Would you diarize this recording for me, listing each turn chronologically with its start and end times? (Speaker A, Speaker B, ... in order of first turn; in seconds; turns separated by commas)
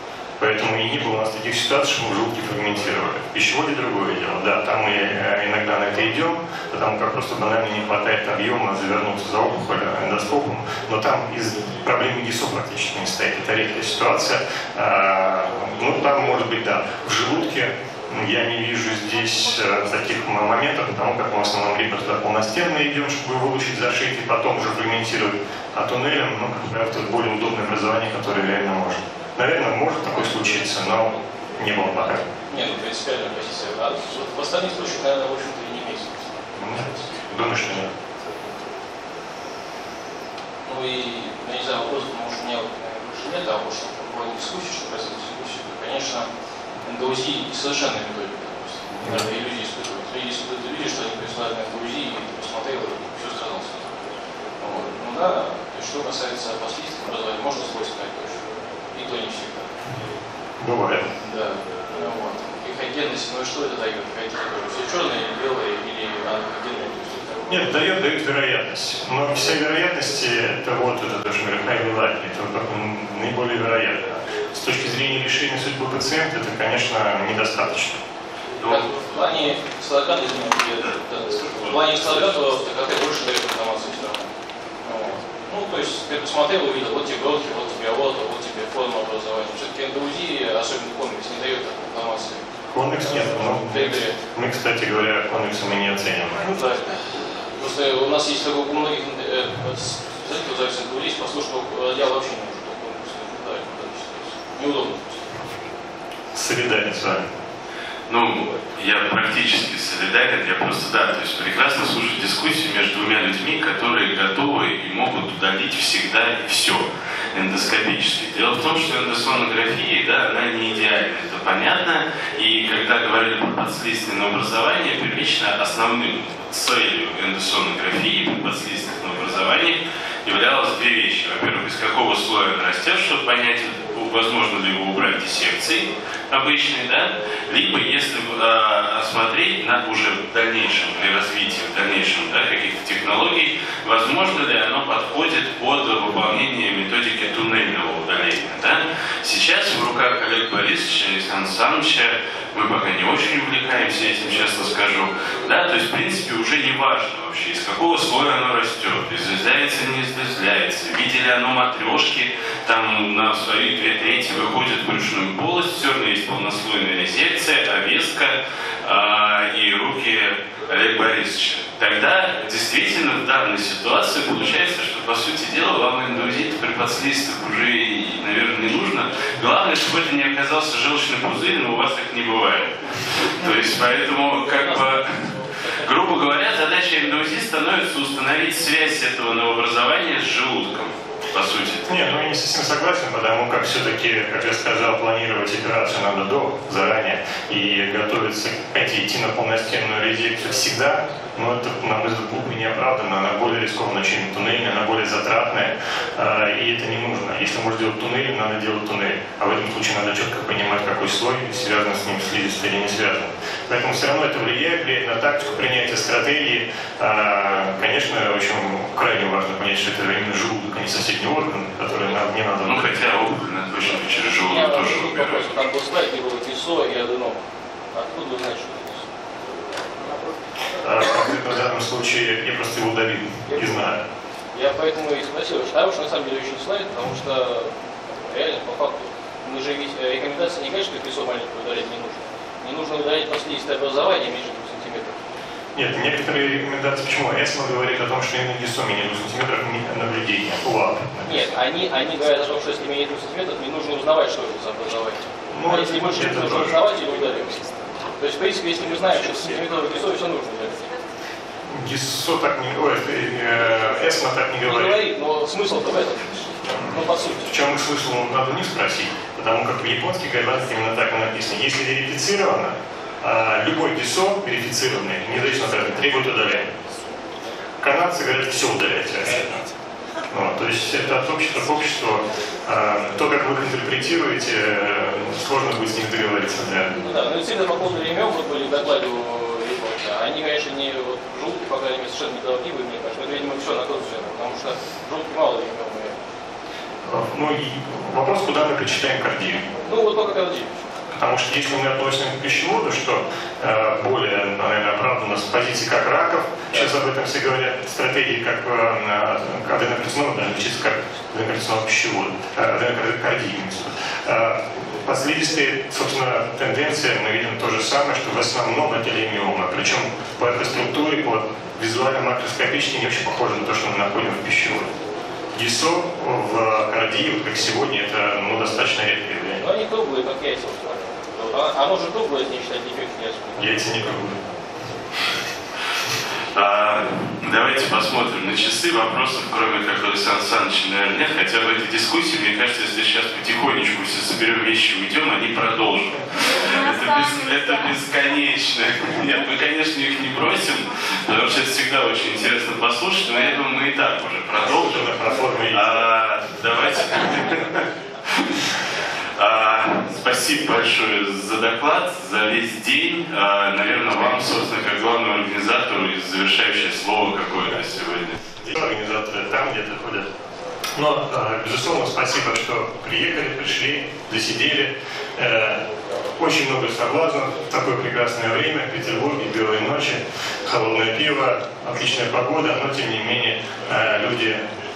Speaker A: 0.4-32.2, Speaker B: 32.5-36.3, Speaker A: 36.5-37.9, Speaker B: 40.6-46.3, Speaker B: 46.8-54.0, Speaker A: 48.9-49.2, Speaker B: 54.6-59.7, Speaker A: 60.6-61.1, Speaker B: 61.2-67.7, Speaker A: 67.5-78.0, Speaker C: 78.6-79.3, Speaker B: 78.6-84.3, Speaker C: 80.9-82.3, Speaker B: 84.8-92.5, Speaker A: 92.7-96.5, Speaker B: 93.0-94.2, Speaker B: 96.4-105.3, Speaker A: 106.3-107.3, Speaker C: 108.1-191.8, Speaker B: 184.4-185.8, Speaker A: 191.8-223.0, Speaker C: 222.6-225.6, Speaker B: 224.3-227.4, Speaker B: 227.9-229.1, Speaker A: 230.8-234.0, Speaker B: 234.5-245.2, Speaker A: 245.7-251.4, Speaker B: 251.2-260.9, Speaker A: 255.5-256.8, Speaker A: 261.6-265.0, Speaker B: 264.6-267.5, Speaker A: 266.7-276.7, Speaker A: 277.8-279.6, Speaker A: 280.3-286.9, Speaker B: 286.9-296.2, Speaker A: 297.0-299.7, Speaker B: 299.8-300.8, Speaker A: 301.1-324.9, Speaker A: 325.5-329.6, Speaker B: 329.6-333.7, Speaker A: 333.6-334.4, Speaker C: 336.5-358.6, Speaker A: 354.6-356.1, Speaker C: 359.3-368.4, Speaker A: 368.6-370.3, Speaker A: 370.9-375.8, Speaker A: 376.4-384.6